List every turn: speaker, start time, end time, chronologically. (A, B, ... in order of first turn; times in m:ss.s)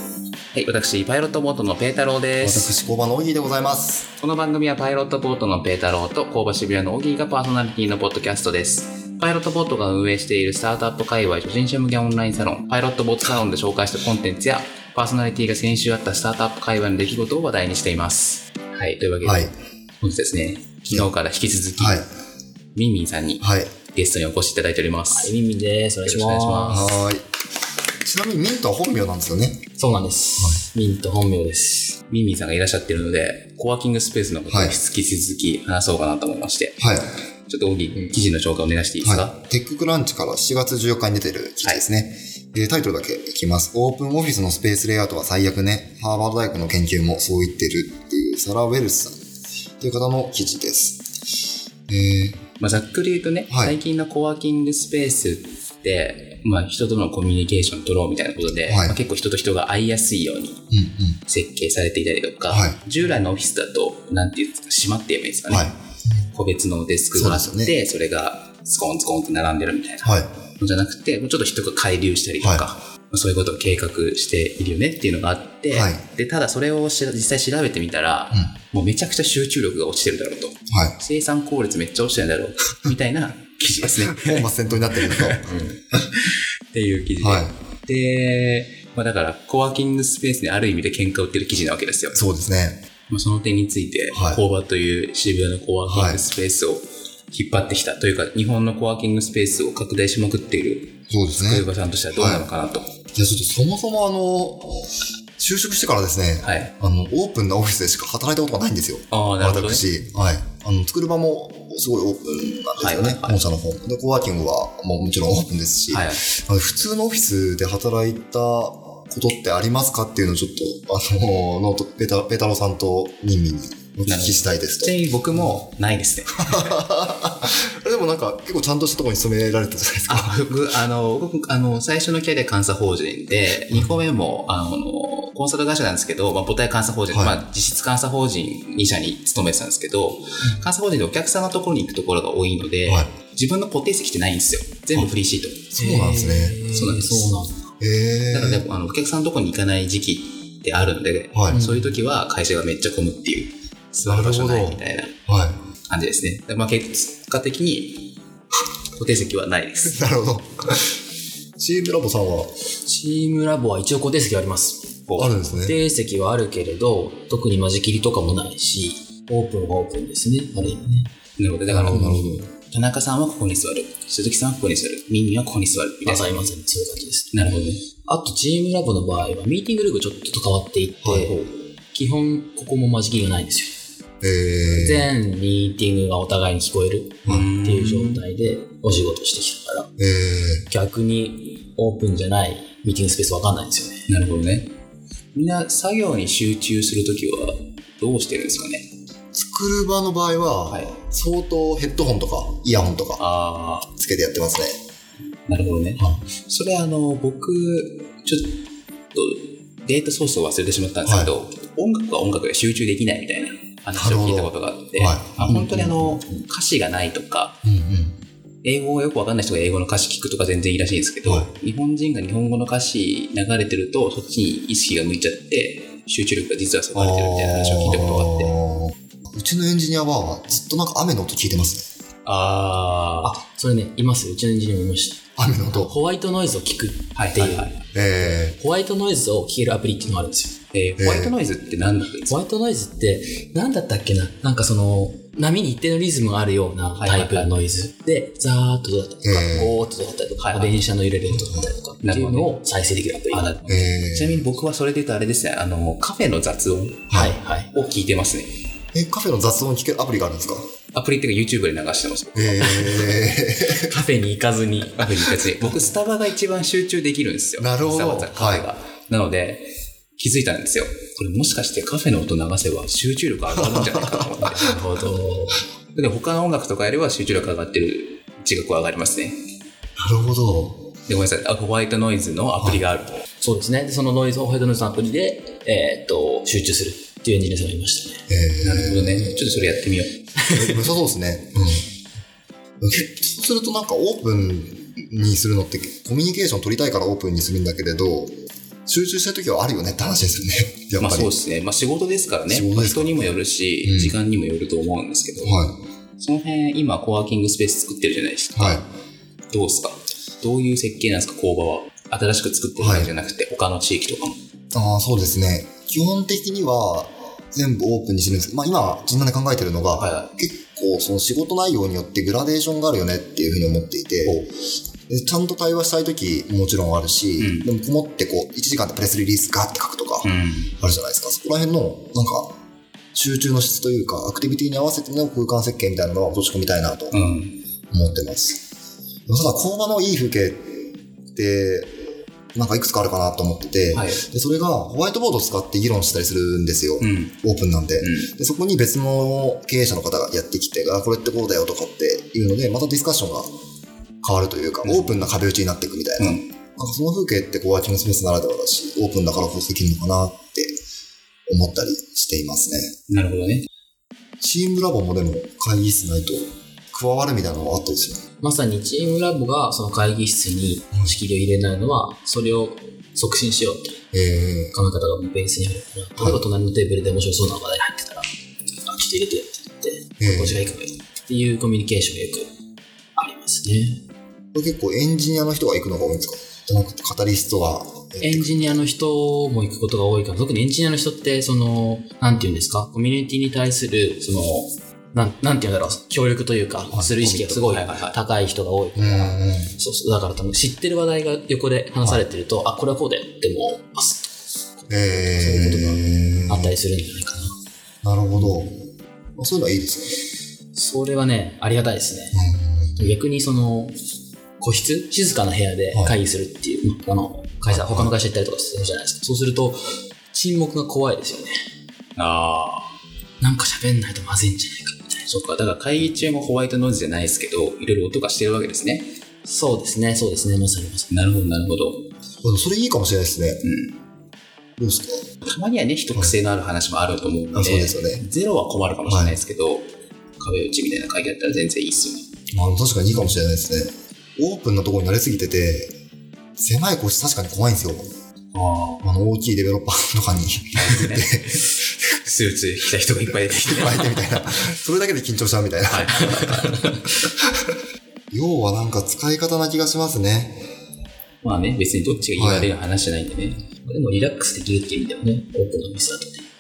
0:00.5-0:02.7 A
0:02.4-0:04.1 B
0:04.2-0:19.5 A
0:19.2-0:19.5 B
0:20.0-0:22.0 A
0:21.8-0:22.1 B
0:22.8-0:25.4 A
0:23.4-0:23.8 B
0:25.1-0:27.0 C
0:26.0-0:27.0 A
0:26.7-0:27.3 B
0:28.0-0:29.6 B
0:29.8-0:32.0 C
0:30.4-0:30.7 B
0:32.1-0:36.8 A
0:34.5-0:34.8 B
0:36.8-0:37.1 B
0:37.5-0:39.4 A
0:39.0-0:49.2 B
0:49.8-0:51.2 B
0:51.9-0:52.4 B
0:52.6-1:00.6 A
0:53.5-0:53.8 B
0:58.6-0:59.0 B
1:00.7-1:01.2 B
1:01.3-1:05.7 A
1:02.5-1:02.8 B
1:05.5-1:06.3 B
1:06.3-1:32.2 A
1:07.2-1:07.8 B
1:10.0-1:10.3 B
1:12.4-1:12.7 B
1:15.7-1:16.0 B
1:20.7-1:21.0 B
1:24.0-1:25.4 B
1:27.2-1:27.5 B
1:32.1-1:32.8 B
1:33.1-1:42.9 A
1:34.1-1:34.4 B
1:35.8-1:36.2 B
1:41.1-1:42.5 B
1:43.2-2:05.0 B
1:46.4-1:46.7 A
1:49.1-1:49.9 A
1:52.8-1:53.4 A
1:55.9-1:56.2 A
2:04.1-2:06.8 A
2:06.3-2:10.4 B
2:10.1-2:25.7 A
2:17.1-2:17.4 B
2:22.8-2:23.1 B
2:25.7-2:26.6 B
2:25.8-2:27.6 C
2:26.7-2:27.4 A
2:27.8-2:28.7 B
2:28.3-2:35.2 A
2:31.3-2:31.6 B
2:31.5-2:32.0 C
2:34.0-2:35.6 B
2:35.9-2:38.1 A
2:39.0-2:40.0 A
2:39.8-2:41.0 B
2:41.6-2:42.5 B
2:42.8-2:44.9 C
2:45.1-2:45.4 A
2:45.2-2:45.8 B
2:45.5-2:51.1 C
2:51.4-2:56.5 A
2:51.7-2:52.5 B
2:51.9-2:52.4 C
2:56.0-3:03.8 C
2:57.3-2:57.8 A
3:01.0-3:01.4 B
3:04.2-3:05.1 B
3:04.7-3:09.9 C
3:07.3-3:07.5 B
3:07.3-3:08.2 A
3:10.0-3:10.7 B
3:10.7-3:14.0 C
3:14.1-3:14.8 A
3:15.4-3:18.9 A
3:19.3-3:23.2 B
3:20.7-3:21.0 A
3:23.2-3:23.9 A
3:23.9-3:24.8 B
3:25.5-3:28.6 A
3:26.0-3:26.2 B
3:29.1-3:37.6 A
3:31.0-3:31.3 B
3:33.9-3:36.2 B
3:37.6-3:38.2 B
3:38.6-3:48.5 A
3:41.2-3:41.5 B
3:46.9-3:51.9 B
3:52.2-3:53.4 A
3:53.2-3:57.7 C
3:55.4-3:56.0 B
3:57.2-3:57.8 A
3:57.9-3:58.6 B
3:58.4-4:00.6 C
4:00.7-4:02.4 A
4:01.0-4:01.4 B
4:02.3-4:13.6 C
4:07.0-4:07.5 A
4:09.2-4:09.8 B
4:10.4-4:10.8 A
4:11.3-4:11.7 B
4:12.0-4:12.5 A
4:13.3-4:17.1 A
4:13.7-4:14.5 B
4:17.1-4:17.4 B
4:17.1-4:17.9 C
4:17.7-4:18.6 A
4:18.9-4:20.7 B
4:20.9-4:23.1 A
4:22.4-4:24.0 B
4:22.6-4:23.1 C
4:23.7-4:25.8 C
4:25.0-4:34.8 A
4:27.6-4:28.7 B
4:33.5-4:34.3 B
4:34.5-4:35.6 C
4:36.0-4:39.4 A
4:40.0-4:40.9 B
4:41.1-4:43.2 A
4:43.4-4:48.2 C
4:48.3-4:49.6 B
4:48.6-4:50.3 A
4:50.4-4:50.8 C
4:50.5-4:51.9 B
4:52.8-4:58.3 B
4:58.9-5:01.3 B
5:01.0-5:05.6 A
5:02.5-5:04.2 B
5:05.4-5:05.8 B
5:06.2-5:08.8 A
5:08.6-5:08.9 B
5:09.5-5:14.4 A
5:12.8-5:13.1 B
5:14.7-5:24.5 B
5:20.0-5:20.3 A
5:25.1-5:32.5 B
5:27.4-5:27.7 A
5:30.2-5:30.7 A
5:33.1-5:37.2 B
5:37.1-5:37.6 A
5:37.9-5:38.6 B
5:39.3-5:41.9 B
5:42.6-5:53.5 B
5:43.9-5:44.2 A
5:47.0-5:47.4 A
5:48.0-5:48.3 A
5:54.2-6:00.7 B
5:54.8-5:55.3 A
5:56.2-5:56.5 A
6:01.5-6:02.9 B
6:03.1-6:03.7 A
6:04.4-6:08.2 B
6:08.4-6:14.0 C
6:14.1-6:14.8 B
6:14.7-6:18.3 C
6:18.8-6:22.5 C
6:20.2-6:20.6 B
6:23.2-6:24.0 C
6:24.5-6:28.8 B
6:28.2-6:47.6 C
6:37.2-6:38.2 A
6:39.0-6:39.7 B
6:44.9-6:46.7 B
6:48.0-6:48.8 B
6:49.4-6:50.2 B
6:50.7-6:52.4 C
6:52.3-6:53.1 B
6:53.0-6:54.0 C
6:54.6-7:01.6 C
6:57.7-6:58.1 B
7:02.2-7:02.9 A
7:03.4-7:05.3 C
7:05.3-7:09.1 A
7:09.4-7:11.1 C
7:11.1-7:12.1 A
7:12.4-7:13.6 B
7:13.6-7:14.0 A
7:14.8-7:15.2 B
7:15.5-7:22.3 A
7:17.5-7:18.2 B
7:19.1-7:19.4 B
7:22.5-7:26.0 B
7:26.6-7:28.1 B
7:28.5-7:29.0 A
7:29.0-7:32.1 B
7:30.7-7:31.3 A
7:32.2-7:34.4 A
7:33.6-7:36.7 B
7:35.9-7:36.8 A
7:38.3-7:40.6 B
7:41.4-7:43.6 A
7:42.4-7:42.7 B
7:43.8-7:46.5 C